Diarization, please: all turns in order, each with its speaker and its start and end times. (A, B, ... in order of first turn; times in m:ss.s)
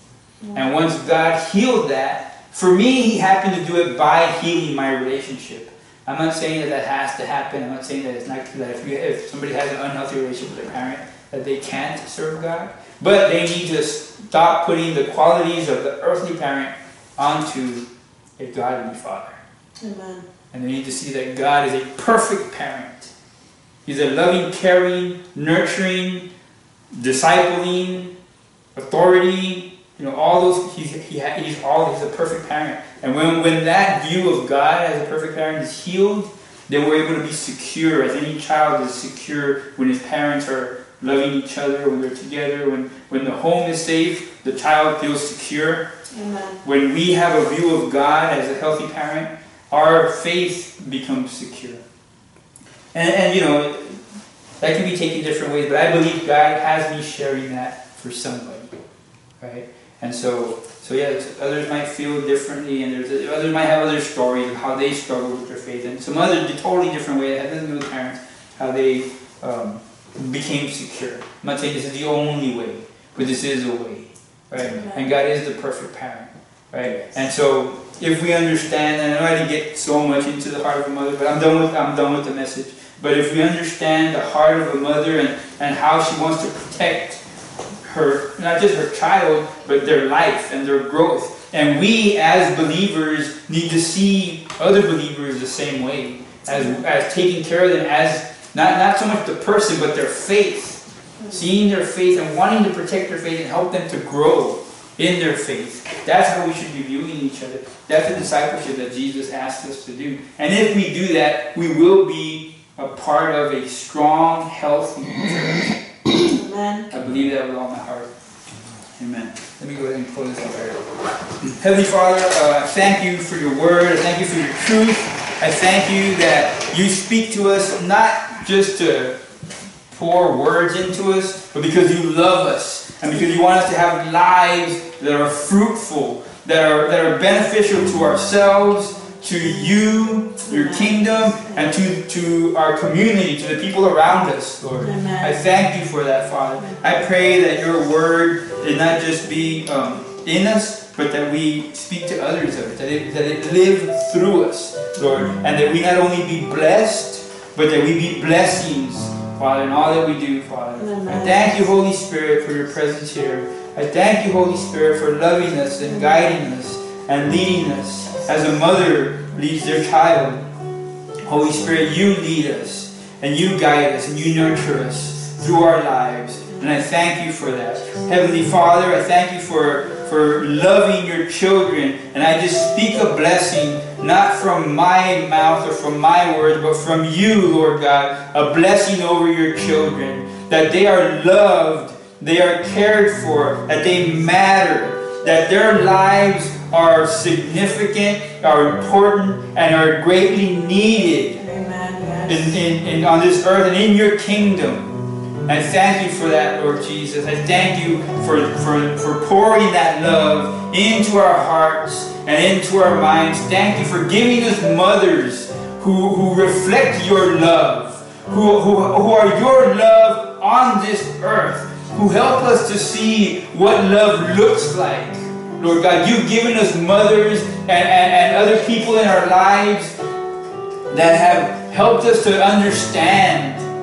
0:00.4-0:00.7 A
0:00.5-0:17.8 B
0:18.4-0:19.4 B
0:19.8-0:20.3 A
0:20.5-0:23.1 B
0:23.8-0:26.3 B
0:26.9-0:28.1 B
0:28.8-0:45.9 B
0:46.1-0:46.6 A
0:46.6-0:51.8 B
0:52.9-0:54.0 B
0:54.6-0:58.7 B
0:59.4-1:27.2 B
1:14.6-1:15.1 A
1:16.8-1:17.2 A
1:27.8-1:55.8 B
1:36.5-1:36.8 A
1:41.2-1:41.5 A
1:56.2-1:56.9 A
1:56.9-1:58.1 B
1:59.0-2:00.9 B
2:01.4-2:09.2 B
2:09.9-2:50.4 B
2:20.4-2:21.8 A
2:24.8-2:25.4 A
2:26.6-2:27.0 A
2:40.8-2:41.6 A
2:45.8-2:46.2 A
2:51.2-3:21.4 B
3:21.3-3:22.6 A
3:22.3-3:24.9 B
3:25.5-3:50.0 B
3:50.9-3:53.7 B